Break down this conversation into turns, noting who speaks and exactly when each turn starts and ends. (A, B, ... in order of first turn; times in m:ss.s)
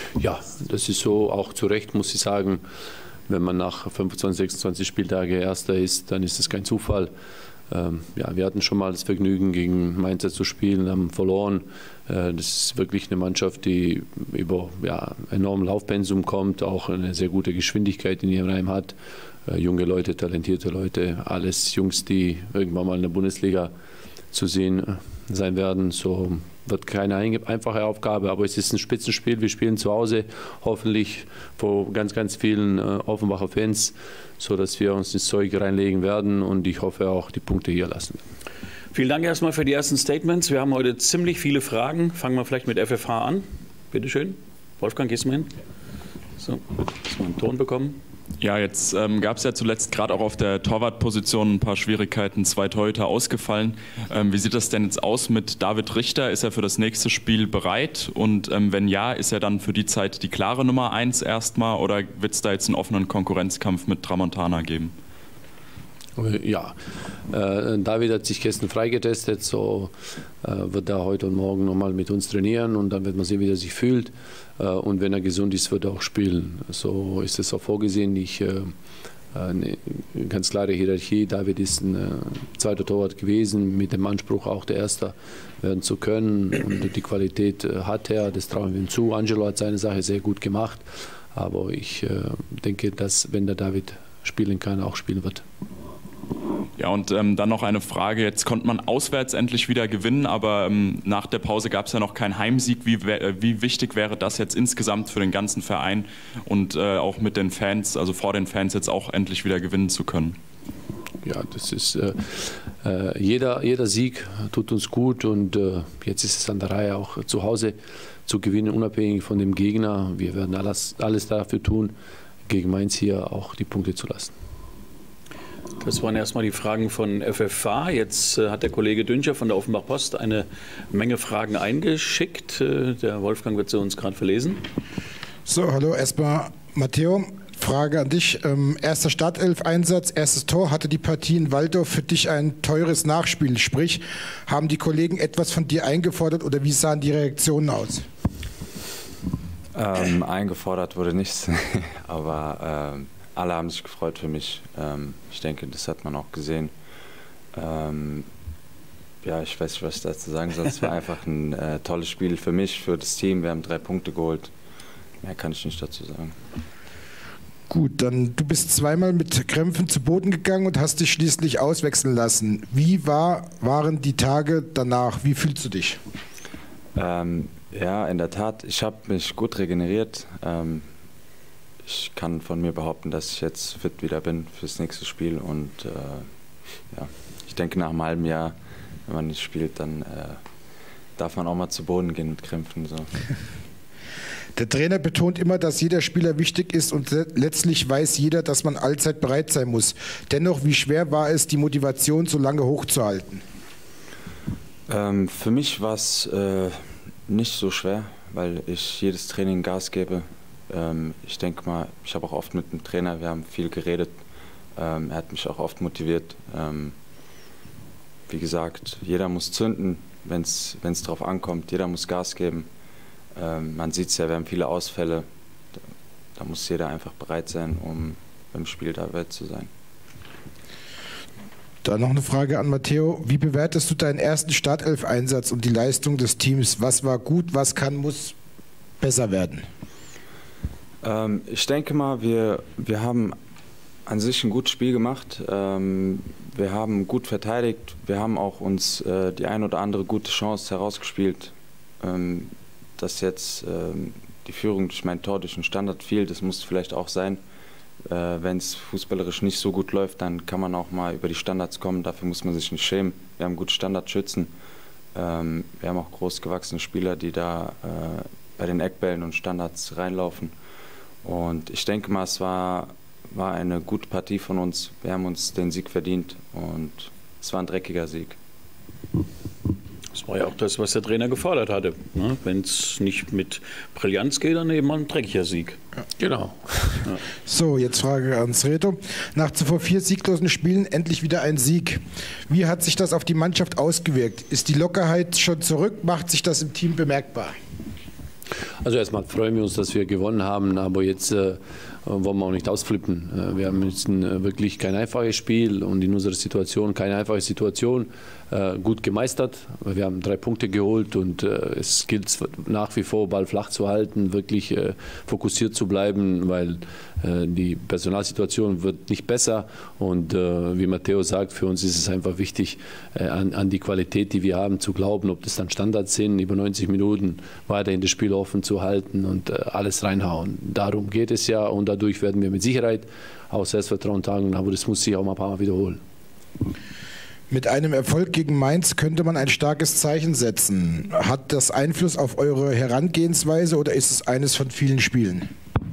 0:00.2-0:02.6 A
0:03.3-0:07.1 A
0:07.7-0:19.0 A
0:19.5-0:23.7 A
0:24.3-0:38.2 A
0:38.9-0:45.5 B
0:46.4-0:48.0 B
0:48.4-1:04.9 C
1:06.2-1:06.8 A
1:07.3-1:18.8 A
1:19.3-1:35.4 A
1:36.8-1:50.4 C
1:51.2-2:01.9 A
2:02.5-2:04.3 A
2:05.8-2:14.6 B
2:15.5-2:28.1 D
2:29.7-2:36.7 E
2:37.5-2:38.3 E
2:39.2-2:44.5 E
2:45.2-2:46.4 E
2:47.7-2:56.0 D
2:57.0-3:00.9 E
3:01.8-3:06.3 E
3:06.9-3:10.4 E
3:11.2-3:13.1 E
3:14.6-3:23.4 D
3:24.9-3:34.2 E
3:34.8-3:37.0 E
3:38.3-3:42.7 E
3:43.4-3:45.3 E
3:46.4-3:49.7 E
3:51.8-3:58.4 D
3:59.0-3:59.7 D
4:01.0-4:03.4 E
4:04.1-4:17.4 E
4:18.1-4:24.5 E
4:25.1-4:30.5 E
4:31.2-4:38.4 E
4:40.1-4:45.8 B
4:46.2-4:47.1 A
4:47.5-4:57.6 D
4:58.8-5:36.0 A
5:37.5-5:45.5 D